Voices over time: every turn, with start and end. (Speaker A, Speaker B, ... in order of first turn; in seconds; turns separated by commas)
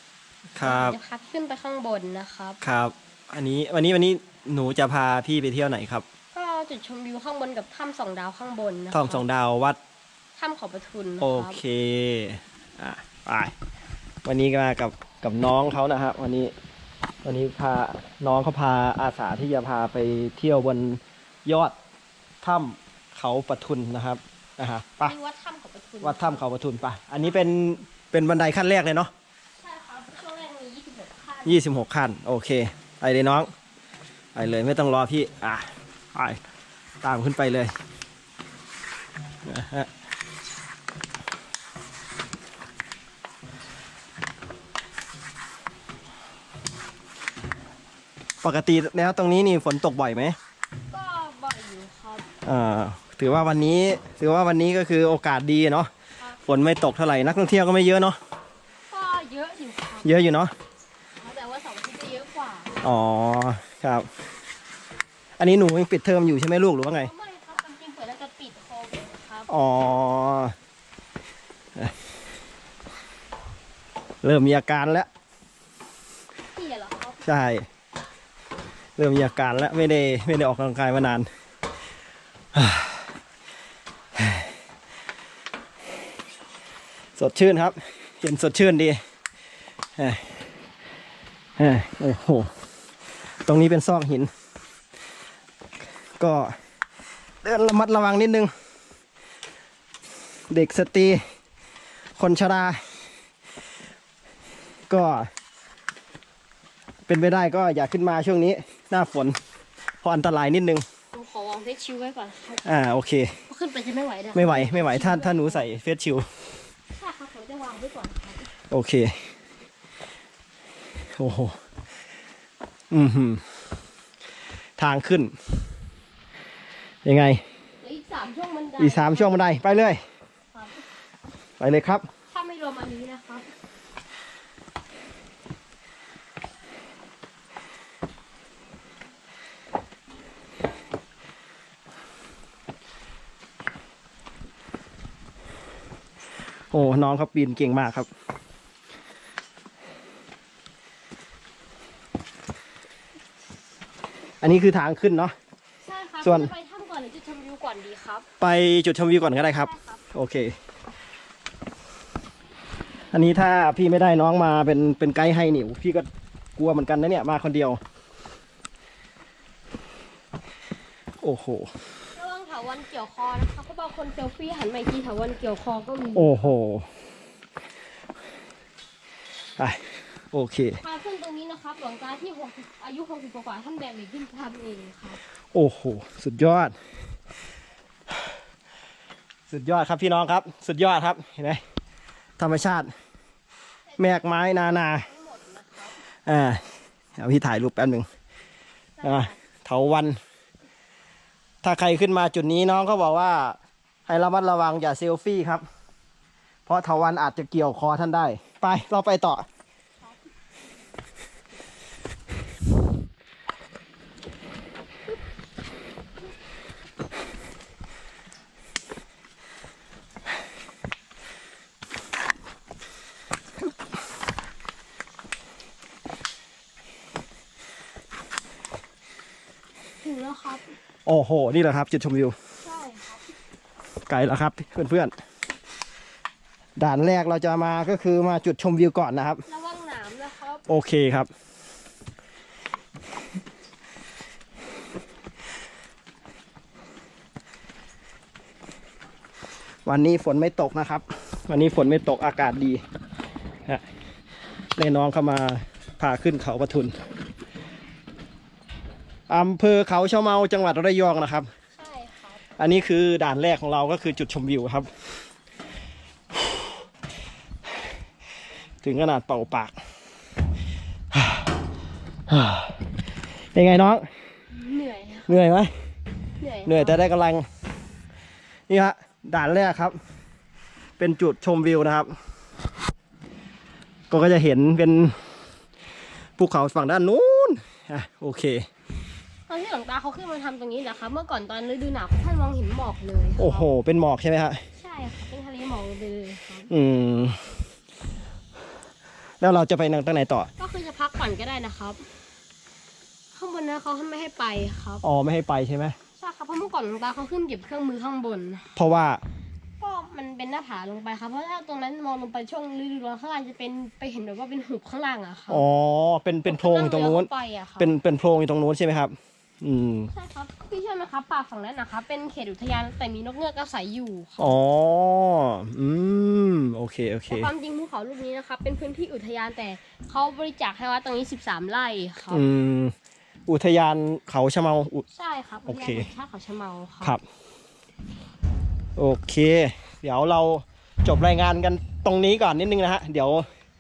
Speaker A: 0.5-1.0, Speaker B: 0.6-2.6, Speaker A: 2.6-6.0, Speaker B: 6.3-9.2, Speaker A: 8.9-9.8, Speaker B: 10.4-11.6, Speaker A: 11.2-13.5, Speaker A: 14.2-16.5, Speaker A: 17.2-21.8, Speaker A: 22.4-25.1, Speaker B: 25.0-26.4, Speaker A: 26.0-29.1, Speaker B: 29.6-31.6, Speaker A: 31.4-33.5, Speaker A: 34.4-36.4, Speaker A: 37.0-37.7, Speaker A: 39.5-39.9, Speaker A: 48.4-50.4, Speaker B: 50.9-52.3, Speaker A: 52.4-55.9, Speaker A: 56.4-58.2, Speaker B: 58.9-60.2, Speaker A: 60.0-60.5, Speaker B: 61.2-62.8, Speaker A: 62.8-64.1, Speaker A: 65.4-67.1, Speaker B: 67.0-69.5, Speaker A: 69.5-70.6, Speaker A: 74.2-75.1, Speaker B: 76.5-77.2, Speaker A: 77.2-77.7, Speaker A: 79.0-81.3, Speaker A: 82.5-83.1, Speaker A: 84.2-84.5, Speaker A: 87.2-89.0, Speaker A: 90.0-90.3, Speaker A: 91.6-92.5, Speaker A: 93.5-94.3, Speaker A: 96.2-96.6, Speaker A: 97.4-98.5, Speaker A: 100.5-101.2, Speaker A: 102.2-103.0, Speaker A: 104.9-105.3, Speaker A: 107.1-109.4, Speaker A: 110.0-110.8, Speaker B: 111.1-112.6, Speaker A: 112.7-113.4, Speaker B: 113.5-115.7, Speaker A: 114.3-116.3, Speaker B: 116.9-118.5, Speaker A: 118.7-119.2, Speaker A: 121.2-121.6, Speaker A: 122.9-123.4, Speaker A: 124.8-125.4, Speaker A: 127.0-127.4, Speaker B: 127.8-129.3, Speaker A: 128.8-130.0, Speaker B: 130.5-130.8, Speaker A: 131.6-132.1, Speaker B: 132.3-133.5, Speaker A: 146.7-148.1, Speaker A: 154.4-155.3, Speaker B: 155.8-158.3, Speaker A: 156.2-156.5, Speaker A: 158.4-160.6, Speaker B: 159.4-160.0, Speaker A: 163.1-167.8, Speaker A: 171.2-171.7, Speaker B: 172.2-176.5, Speaker A: 176.2-176.9, Speaker A: 179.6-180.8, Speaker B: 180.8-185.2, Speaker A: 185.5-186.8, Speaker A: 189.5-191.6, Speaker A: 192.4-192.9, Speaker B: 193.9-196.0, Speaker A: 194.0-195.1, Speaker A: 196.3-196.6, Speaker A: 197.2-198.1, Speaker B: 199.0-199.4, Speaker A: 199.0-200.2, Speaker A: 201.6-205.7, Speaker A: 206.7-209.4, Speaker B: 230.0-230.7, Speaker A: 231.1-232.4, Speaker B: 232.6-233.3, Speaker A: 234.1-235.1, Speaker A: 236.8-239.4, Speaker B: 239.4-240.7, Speaker A: 240.7-241.3, Speaker A: 249.9-252.8, Speaker A: 254.8-256.9, Speaker A: 259.3-261.5, Speaker B: 261.7-262.4, Speaker A: 262.6-264.9, Speaker A: 268.8-269.8, Speaker A: 271.1-271.5, Speaker A: 272.3-272.9, Speaker A: 273.5-274.1, Speaker B: 274.5-275.4, Speaker A: 275.3-275.7, Speaker B: 276.4-277.0, Speaker A: 276.7-277.5, Speaker A: 278.7-280.0, Speaker A: 281.0-282.2, Speaker A: 284.1-285.4, Speaker A: 286.4-288.7, Speaker B: 289.5-293.7, Speaker A: 293.4-294.6, Speaker B: 294.8-296.7, Speaker A: 296.7-297.6, Speaker A: 299.4-300.5, Speaker B: 300.6-302.1, Speaker B: 303.3-305.0, Speaker A: 305.0-306.0, Speaker B: 306.2-308.7, Speaker A: 308.8-309.2, Speaker B: 309.8-315.6, Speaker A: 315.5-320.1, Speaker B: 316.5-317.9, Speaker B: 320.1-324.6, Speaker A: 324.4-327.5, Speaker B: 327.3-332.4, Speaker A: 332.3-332.9, Speaker A: 333.5-335.1, Speaker B: 335.1-337.2, Speaker A: 335.7-336.1, Speaker A: 339.0-343.5